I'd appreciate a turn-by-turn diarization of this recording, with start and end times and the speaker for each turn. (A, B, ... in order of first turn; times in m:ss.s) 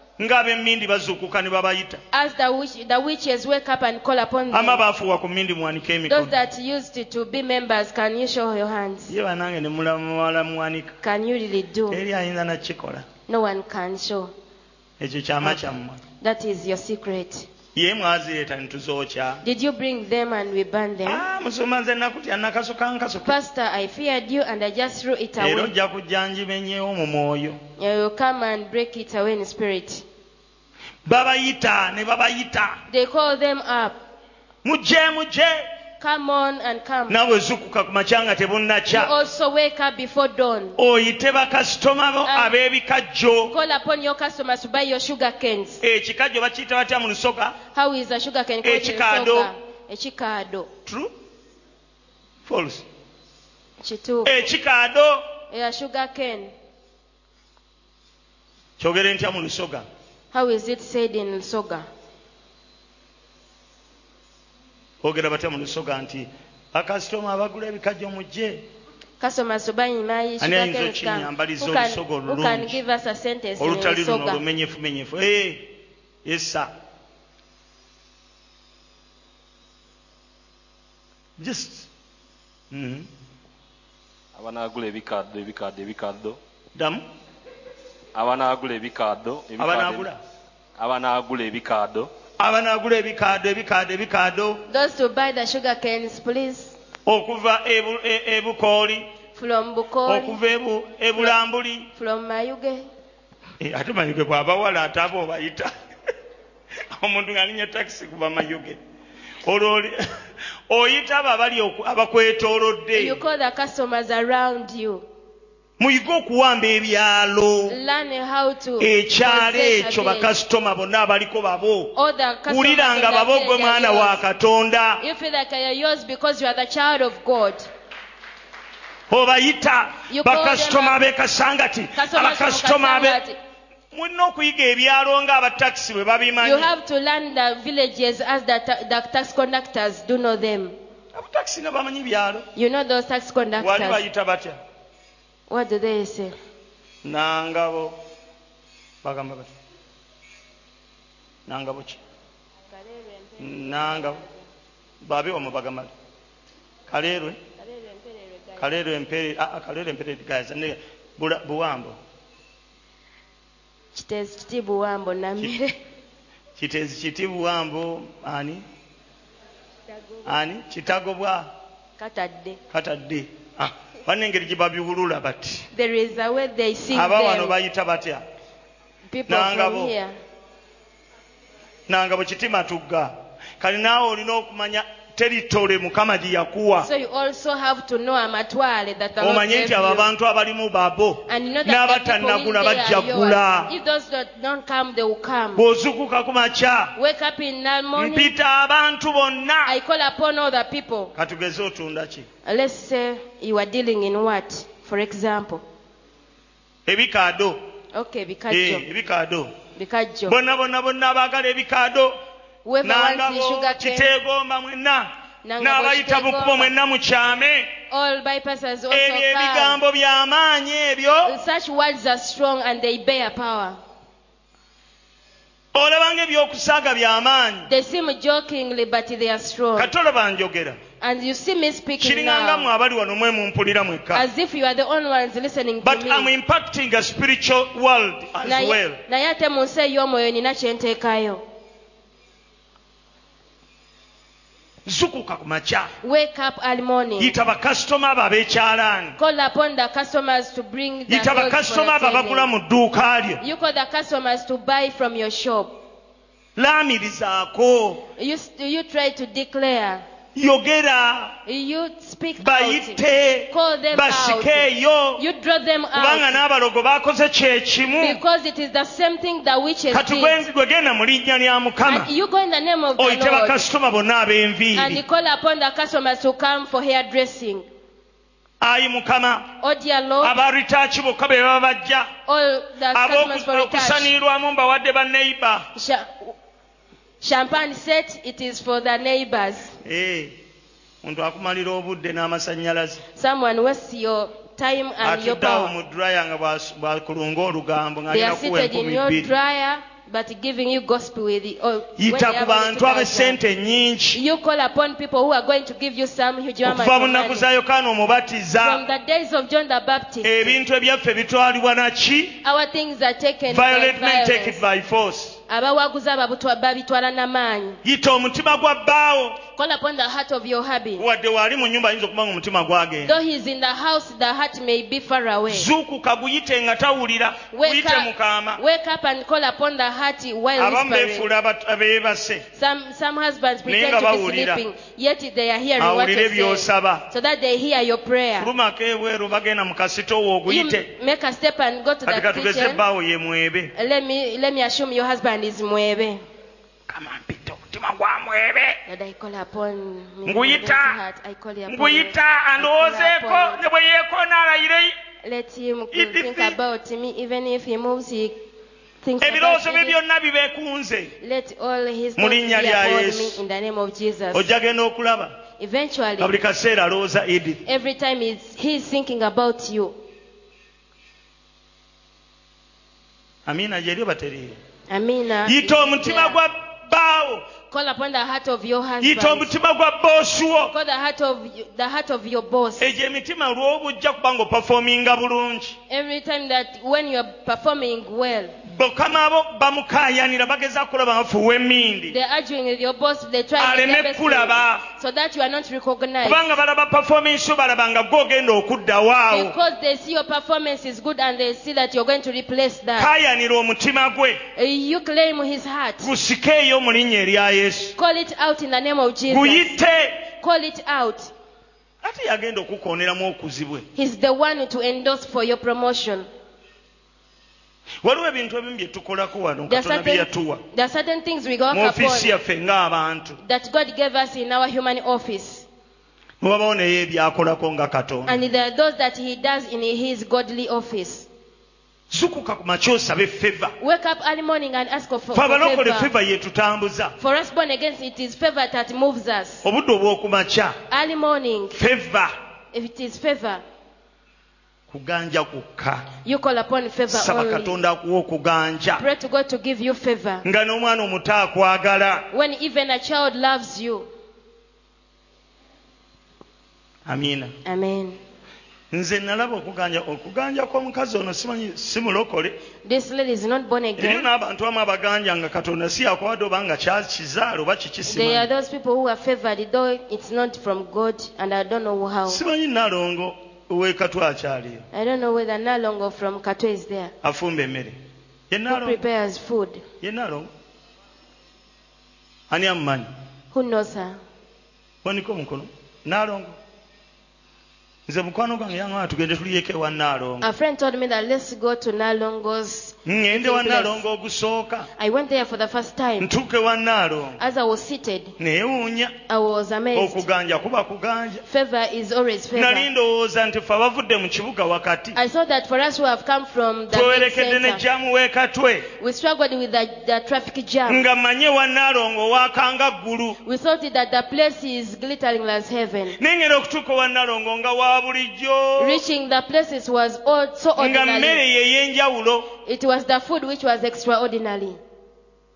0:00.2-0:02.0 A
0:02.1-0:04.8 B
0:04.5-0:06.3 A
0:06.1-0:09.1 B
0:09.1-0:11.0 A
0:11.0-0:12.0 B
0:11.9-0:13.1 A
0:13.3-0:14.3 B
0:15.0-0:16.0 A
0:15.4-0:15.7 B
0:16.2-0:17.5 B
0:17.7-0:19.4 A
0:19.4-0:21.2 B
0:21.0-0:23.3 A
0:23.2-0:25.7 B
0:25.4-0:27.6 A
0:27.8-0:30.0 B
0:31.0-0:32.8 A
0:32.9-0:34.0 B
0:34.6-0:35.6 A
0:36.0-0:37.2 B
0:37.1-0:39.1 A
0:38.9-0:40.8 B
0:40.8-0:43.5 A
0:42.2-0:42.5 B
0:43.5-0:45.8 B
0:45.8-0:47.6 A
0:47.7-0:50.7 B
0:48.6-0:49.5 A
0:50.8-0:51.1 A
0:52.4-0:52.8 A
0:53.8-0:54.4 B
0:54.2-0:55.2 A
0:55.5-0:56.5 B
0:58.8-0:59.8 A
1:00.3-1:01.9 B
1:05.0-1:08.6 A
1:09.2-1:14.4 B
1:10.4-1:12.8 A
1:13.6-1:15.7 A
1:16.2-1:16.7 A
1:21.4-1:21.9 A
1:22.7-1:23.1 A
1:24.4-1:26.4 C
1:26.7-1:27.0 A
1:28.1-1:30.1 C
1:29.6-1:30.2 A
1:30.8-1:32.1 C
1:32.4-1:34.6 A
1:34.7-1:36.8 B
1:37.0-1:39.1 A
1:39.3-1:40.4 B
1:40.1-1:41.9 A
1:41.9-1:42.8 B
1:43.6-1:45.7 A
1:46.9-1:48.8 A
1:49.4-1:50.0 A
1:50.7-1:53.2 A
1:52.9-1:55.0 B
1:55.8-1:57.8 A
1:57.7-2:00.3 B
1:58.8-2:01.9 A
2:01.9-2:04.2 B
2:02.5-2:05.0 A
2:05.0-2:07.7 B
2:09.1-2:13.2 A
2:10.1-2:11.0 B
2:11.9-2:13.4 B
2:13.9-2:16.7 A
2:16.4-2:20.7 B
2:21.1-2:22.4 A
2:22.6-2:24.0 B
2:23.6-2:24.6 A
2:25.5-2:26.3 B
2:27.0-2:28.0 A
2:29.0-2:29.5 A
2:31.5-2:32.0 A
2:32.7-2:34.4 B
2:33.4-2:34.2 A
2:35.0-2:35.9 A
2:36.9-2:37.4 A
2:37.6-2:38.7 B
2:38.6-2:42.0 A
2:43.9-2:45.8 B
2:46.6-2:48.6 A
2:50.2-2:51.5 A
2:52.0-2:52.6 B
2:52.7-2:55.7 A
2:55.7-2:57.6 B
2:56.9-2:58.2 A
2:59.1-3:00.1 B
2:59.3-2:59.9 A
3:01.9-3:06.9 A
3:06.8-3:10.1 B
3:09.2-3:13.7 A
3:11.3-3:15.6 B
3:15.6-3:17.0 A
3:17.0-3:18.3 B
3:18.0-3:19.7 A
3:19.6-3:21.1 B
3:21.2-3:22.3 A
3:22.4-3:25.6 B
3:26.8-3:27.6 A
3:27.9-3:28.8 B
3:28.5-3:29.5 A
3:29.7-3:30.4 B
3:30.3-3:32.2 A
3:32.6-3:34.1 B
3:32.8-3:37.7 A
3:35.4-3:36.7 B
3:37.9-3:39.8 B
3:38.9-3:41.3 A
3:41.2-3:43.8 B
3:45.7-3:47.7 A
3:47.7-3:49.9 B
3:49.8-3:50.8 A
3:51.0-3:52.7 B
3:52.0-3:54.2 A
3:54.1-3:56.3 B
3:55.8-3:59.0 A
3:58.4-4:01.4 B
4:04.8-4:05.9 A
4:06.0-4:07.4 B
4:07.2-4:09.2 A
4:09.2-4:12.5 B
4:11.1-4:13.4 A
4:13.4-4:15.8 B
4:16.6-4:18.0 A
4:18.2-4:20.0 B
4:20.4-4:21.4 A
4:21.4-4:26.4 B
4:22.4-4:25.2 A
4:25.9-4:28.2 A
4:28.0-4:30.4 B
4:29.9-4:32.1 A
4:31.8-4:33.7 B
4:33.0-4:35.0 A
4:34.7-4:37.6 B
4:38.6-4:39.5 A
4:39.6-4:40.4 B
4:40.2-4:42.1 A
4:42.2-4:44.1 B
4:42.9-4:45.7 A
4:45.7-4:46.3 B
4:47.2-4:49.7 B
4:49.8-4:50.3 A
4:51.0-4:53.0 A
4:53.1-4:55.7 B
4:55.0-4:59.3 A
4:58.1-5:03.4 B
5:02.0-5:04.2 A
5:04.1-5:07.5 B
5:06.6-5:08.8 A
5:08.6-5:10.6 B
5:10.2-5:12.4 A
5:12.4-5:14.6 B
5:13.5-5:15.4 A
5:15.5-5:17.8 B
5:17.8-5:19.4 A
5:19.5-5:21.0 B
5:21.0-5:23.2 A
5:23.0-5:25.7 B
5:25.5-5:28.6 A
5:27.5-5:31.3 B
5:30.6-5:32.4 A
5:32.5-5:38.5 B
5:33.6-5:34.6 A
5:35.8-5:37.0 A
5:38.4-5:40.9 A
5:40.5-5:42.8 B
5:42.0-5:43.7 A
5:43.7-5:46.2 B
5:46.9-5:48.8 A
5:48.9-5:53.6 B
5:50.2-5:51.0 A
5:51.7-5:54.9 A
5:55.2-5:58.4 B
5:55.9-5:56.6 A
5:59.0-6:00.0 B
5:59.2-6:01.1 A
6:01.2-6:04.5 B
6:02.2-6:03.4 A
6:04.3-6:05.4 A
6:05.6-6:06.4 B
6:06.2-6:07.6 A
6:07.6-6:10.0 B
6:13.4-6:14.6 A
6:14.9-6:16.4 B
6:15.4-6:17.4 A
6:17.7-6:19.5 B
6:19.0-6:20.7 A
6:20.7-6:22.9 B
6:22.8-6:25.8 A
6:25.9-6:28.5 B
6:28.7-6:32.2 A
6:32.1-6:36.5 B
6:33.6-6:34.8 A
6:36.2-6:39.5 A
6:39.3-6:43.1 B
6:43.0-6:44.4 A
6:44.5-6:46.1 B
6:46.0-6:47.9 A
6:48.0-6:51.3 B
6:49.3-6:50.2 A
6:52.0-6:53.9 A
6:53.9-6:56.3 B
6:58.0-7:00.6 A
6:59.7-7:02.3 B
7:01.7-7:03.4 A
7:03.4-7:05.6 B
7:06.4-7:08.4 A
7:08.2-7:11.3 B
7:12.1-7:13.7 A
7:13.8-7:16.1 B
7:15.3-7:17.2 A
7:17.2-7:19.6 B
7:19.6-7:20.8 A
7:20.9-7:21.8 B
7:21.7-7:22.3 A
7:22.7-7:23.6 B
7:24.9-7:26.1 A
7:26.2-7:27.8 B
7:27.1-7:29.0 A
7:29.0-7:30.4 B
7:30.4-7:32.3 A
7:32.3-7:34.1 B
7:37.0-7:37.5 A
7:37.6-7:38.2 B
7:38.9-7:42.6 A
7:42.8-7:44.3 B
7:44.0-7:48.5 A
7:48.0-7:52.4 B
7:52.3-7:54.8 A
7:54.9-7:57.1 B
7:57.2-7:58.0 A
7:58.5-7:59.0 A
7:58.7-7:59.8 B
8:00.0-8:00.5 A
8:02.5-8:03.1 A
8:03.5-8:04.2 B
8:05.0-8:06.6 A
8:08.1-8:10.5 A
8:10.4-8:14.0 B
8:13.0-8:14.9 A
8:15.0-8:16.3 B
8:16.2-8:17.4 A
8:17.4-8:18.3 B
8:18.4-8:19.2 A
8:19.3-8:20.2 B
8:19.9-8:21.4 A
8:21.5-8:22.9 B
8:22.5-8:25.2 A
8:25.1-8:27.8 B
8:26.9-8:28.9 A
8:28.9-8:31.1 B
8:30.9-8:33.4 A
8:33.4-8:36.2 B
8:36.1-8:39.0 A
8:38.8-8:41.4 B
8:40.8-8:42.5 A
8:42.6-8:44.8 B